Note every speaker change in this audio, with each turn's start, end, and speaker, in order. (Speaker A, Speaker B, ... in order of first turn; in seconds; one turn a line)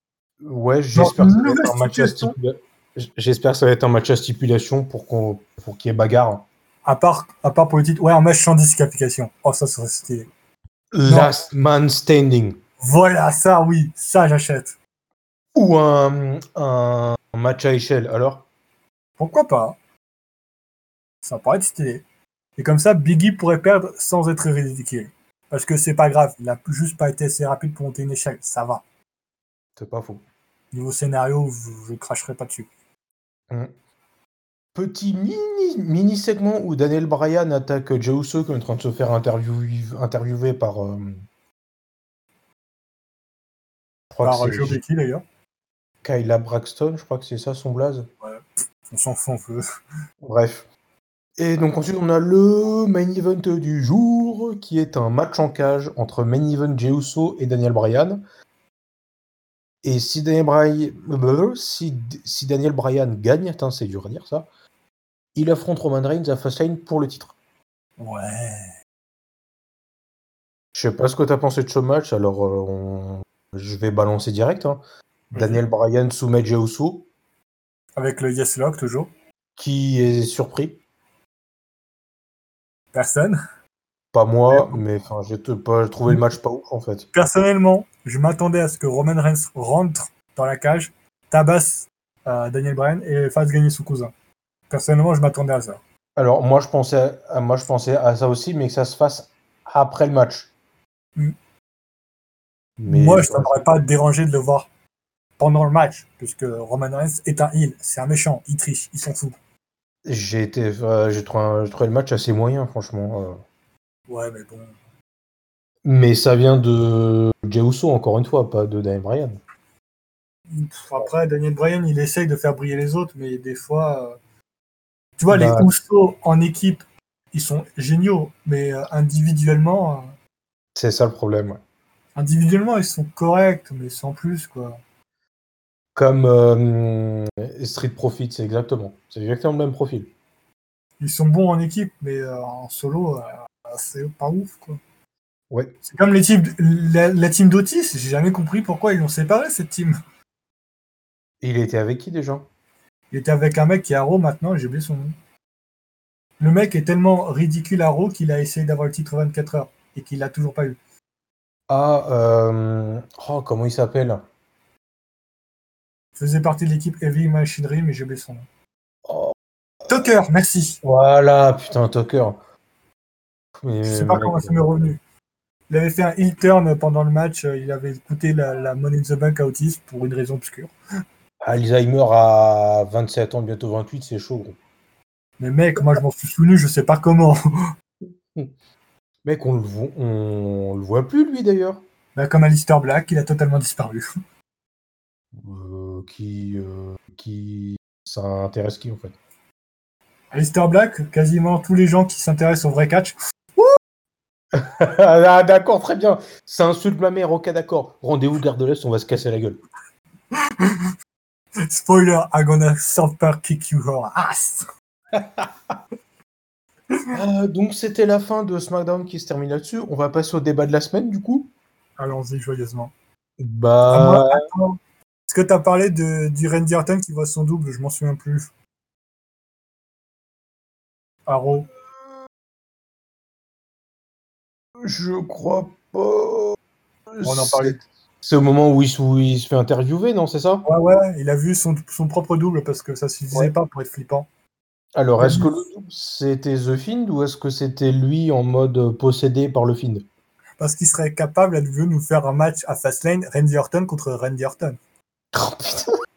Speaker A: 0.4-6.5
Speaker B: 0.9-2.4
Speaker B: 6.8-10.3
Speaker A: 10.9-12.6
Speaker B: 11.1-11.3
Speaker B: 12.8-14.8
Speaker A: 15.6-18.5
Speaker B: 19.2-19.8
Speaker B: 21.2-22.0
Speaker B: 22.6-28.8
Speaker A: 29.8-30.2
Speaker B: 30.7-32.7
Speaker A: 34.8-41.2
Speaker A: 44.1-44.8
Speaker B: 44.2-45.2
Speaker A: 46.0-48.1
Speaker B: 48.2-49.6
Speaker A: 50.2-50.7
Speaker A: 51.4-58.2
Speaker A: 59.8-64.5
Speaker A: 65.3-67.3
Speaker B: 68.0-68.7
Speaker A: 70.7-74.8
Speaker B: 75.3-75.6
Speaker A: 75.3-77.1
Speaker B: 78.0-79.1
Speaker A: 79.6-80.8
Speaker B: 82.9-83.4
Speaker A: 84.1-87.1
Speaker B: 84.5-84.8
Speaker B: 87.1-94.1
Speaker B: 94.7-95.8
Speaker A: 96.2-100.5
Speaker A: 102.8-103.7
Speaker B: 102.9-104.7
Speaker B: 105.4-109.4
Speaker A: 110.1-113.4
Speaker B: 114.1-114.7
Speaker A: 115.8-119.4
Speaker B: 120.5-124.2
Speaker B: 125.2-130.1
Speaker A: 125.3-125.7
Speaker A: 130.8-131.6
Speaker B: 132.2-134.8
Speaker A: 135.9-140.1
Speaker B: 141.0-144.8
Speaker A: 145.5-145.8
Speaker B: 145.8-150.0
Speaker A: 151.4-152.5
Speaker B: 153.1-155.2
Speaker B: 156.4-160.8
Speaker A: 161.7-164.3
Speaker B: 166.2-168.5
Speaker A: 169.1-169.3
Speaker B: 169.9-170.8
Speaker A: 170.8-172.4
Speaker A: 173.6-174.6
Speaker B: 173.8-175.0
Speaker B: 175.7-180.7
Speaker A: 181.4-184.6
Speaker B: 185.4-187.4
Speaker A: 189.2-191.8
Speaker B: 192.2-194.1
Speaker A: 195.3-199.2
Speaker B: 200.3-203.8
Speaker A: 204.5-209.6
Speaker B: 210.6-210.9
Speaker B: 211.7-214.7
Speaker A: 215.1-215.5
Speaker A: 217.1-221.5
Speaker B: 222.0-222.9
Speaker A: 223.4-224.5
Speaker B: 223.9-224.8
Speaker B: 225.3-228.5
Speaker B: 231.3-231.7
Speaker A: 234.8-236.6
Speaker A: 237.2-240.7
Speaker B: 237.2-237.8
Speaker B: 240.7-244.3
Speaker A: 244.9-250.1
Speaker B: 245.2-245.5
Speaker B: 250.6-254.8
Speaker A: 255.3-255.9